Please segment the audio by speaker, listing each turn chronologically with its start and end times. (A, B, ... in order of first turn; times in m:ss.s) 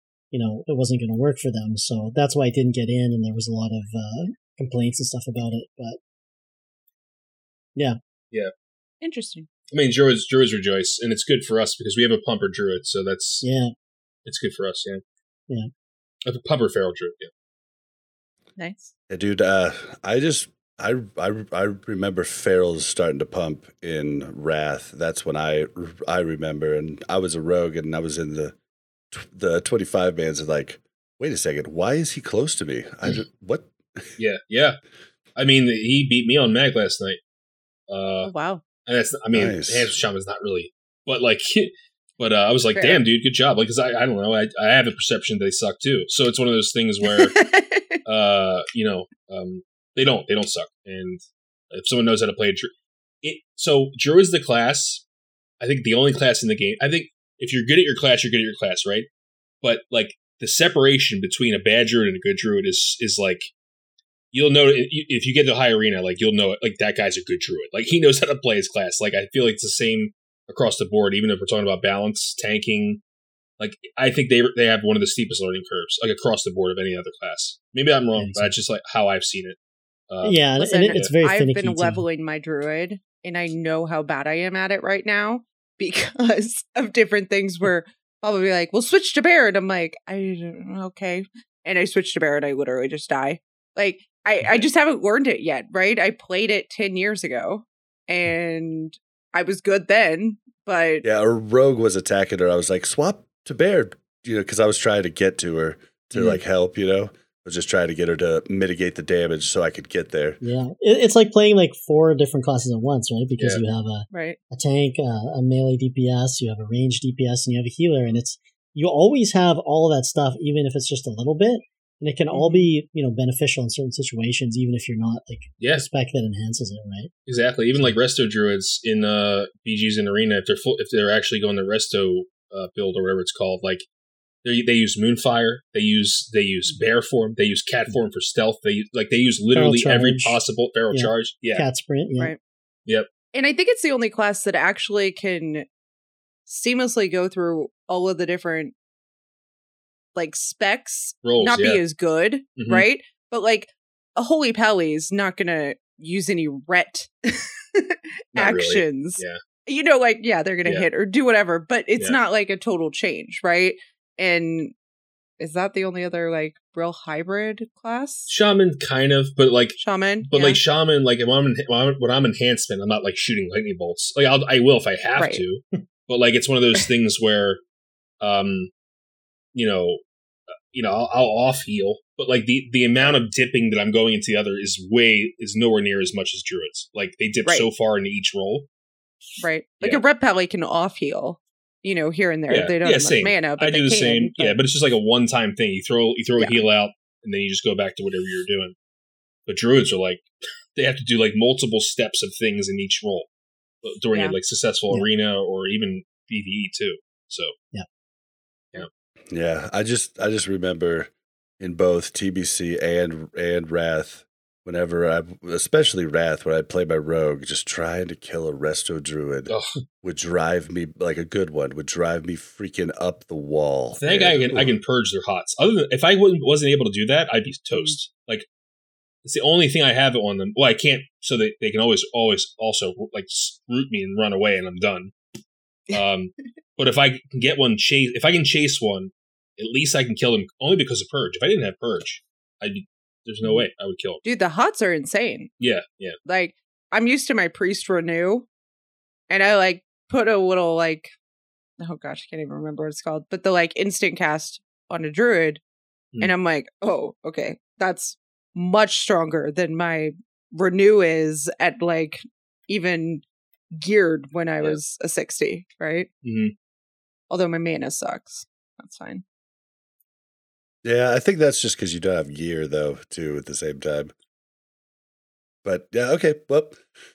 0:00.3-0:06.0 A
0:09.0-0:09.5 B
0:09.7-0:13.4 C
0:13.4-0:13.7 A
0:14.2-0:15.0 C
0:16.2-0:17.3 C
0:18.6-0:18.9 B
0:19.1-0:28.5 D
0:29.1-0:34.1 D
0:34.2-0:34.8 C
0:35.4-0:37.2 C
0:37.9-0:38.3 C
0:38.2-0:38.6 B
0:38.8-0:47.4 C
0:39.3-0:39.9 D
0:42.8-0:43.0 B
0:47.0-0:48.0 B
0:48.0-0:52.7 C
0:53.2-0:55.0 C
0:55.6-0:59.1 C
0:59.6-1:03.5 C
1:04.3-1:13.0 C
1:13.6-1:19.6 C
1:18.2-1:18.5 A
1:20.1-1:21.1 C
1:20.2-1:22.0 A
1:20.6-1:41.0 B
1:41.0-1:50.4 D
1:50.4-2:07.1 A
1:54.1-1:54.4 B
2:02.3-2:02.7 B
2:05.6-2:05.8 C
2:07.3-2:13.8 C
2:14.4-2:21.6 C
2:19.5-2:20.4 A
2:20.9-2:22.3 A
2:23.3-2:25.7 B
2:26.5-2:28.7 B
2:30.1-2:44.7 B
2:31.2-2:31.8 C
2:32.6-2:32.8 C
2:38.3-2:39.4 C
2:45.4-2:48.3 B
2:48.3-2:57.6 C
2:49.8-2:50.6 B
2:55.2-2:55.4 B
2:58.2-2:58.7 C
2:59.5-3:00.0 C
3:00.7-3:08.7 C
3:09.4-3:14.6 B
3:12.5-3:18.7 C
3:16.4-3:16.6 B
3:19.5-3:20.2 C
3:20.8-3:23.3 C
3:23.8-3:27.5 C
3:29.3-3:44.8 D
3:44.0-3:48.5 C
3:49.2-3:55.1 C
3:55.9-4:04.2 C
4:04.2-4:05.5 B
4:05.6-4:06.2 C
4:06.2-4:08.5 B
4:09.3-4:11.1 B
4:11.8-4:15.6 B
4:16.2-4:23.2 B
4:23.7-4:26.1 B
4:26.2-4:26.5 C
4:27.3-4:29.2 B
4:30.8-4:34.1 D
4:35.6-4:36.8 D